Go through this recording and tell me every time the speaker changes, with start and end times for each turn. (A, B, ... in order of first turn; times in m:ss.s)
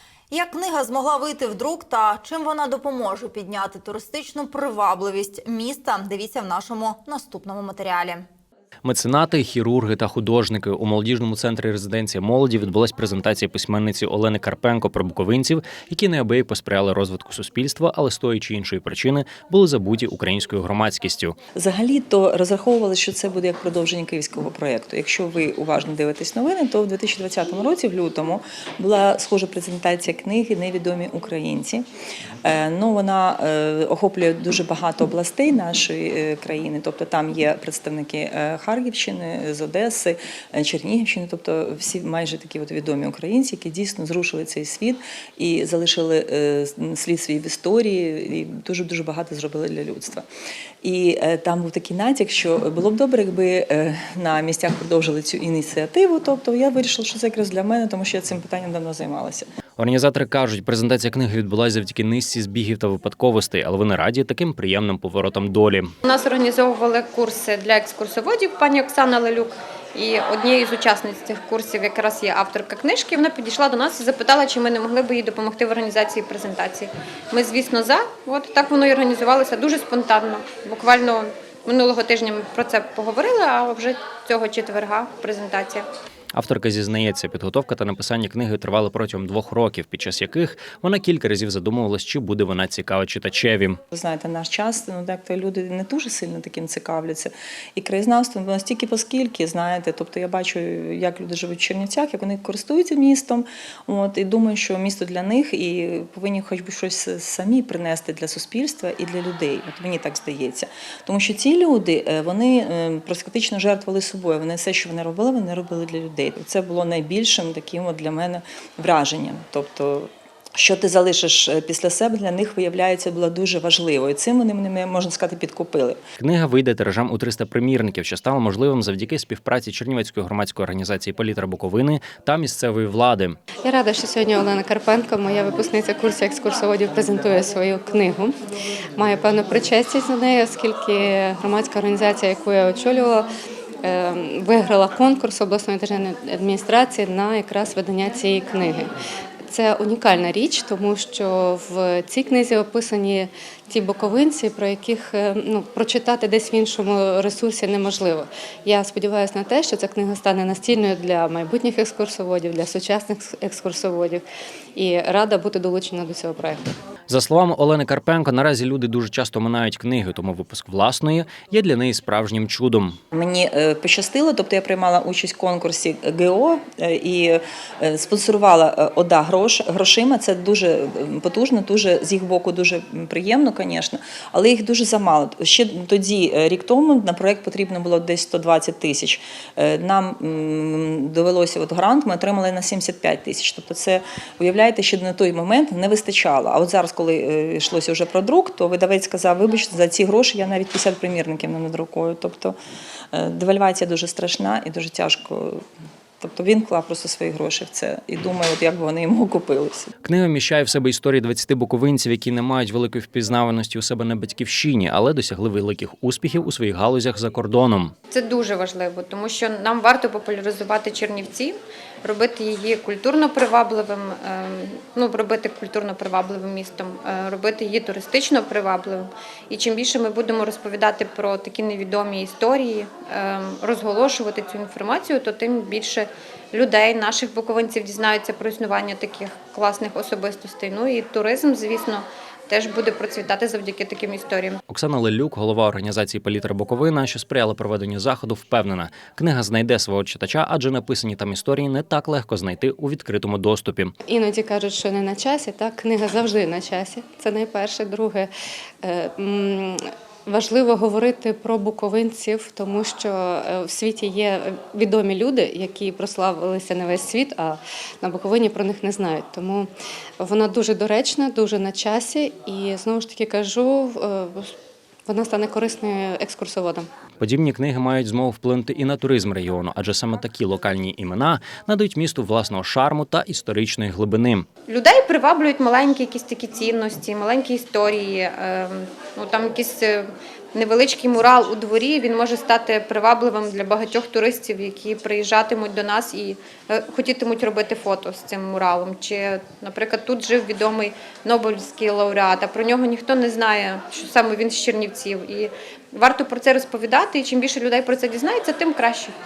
0:00.3-0:08.2 A
0:08.8-0:21.4 B
0:21.6-0:31.8 C
0:32.4-0:50.2 C
0:50.8-0:59.4 C
0:59.8-1:05.9 B
1:06.0-1:25.8 D
1:26.3-1:33.8 B
1:33.9-2:06.0 C
2:06.2-2:13.4 B
2:13.6-2:18.3 E
2:19.0-2:23.2 E
2:23.8-2:28.9 E
2:29.5-2:44.2 E
2:44.7-2:46.7 E
2:47.1-2:53.0 B
2:53.1-3:22.6 C
3:23.1-3:25.6 C
3:26.2-3:29.9 C
3:30.0-3:37.9 B
3:38.1-4:04.6 D
4:04.7-4:13.9 B
4:14.0-4:18.3 E
4:18.8-4:29.7 E
4:30.2-4:34.5 E
4:35.0-4:36.9 E
4:37.2-4:44.4 B
4:44.7-5:09.1 D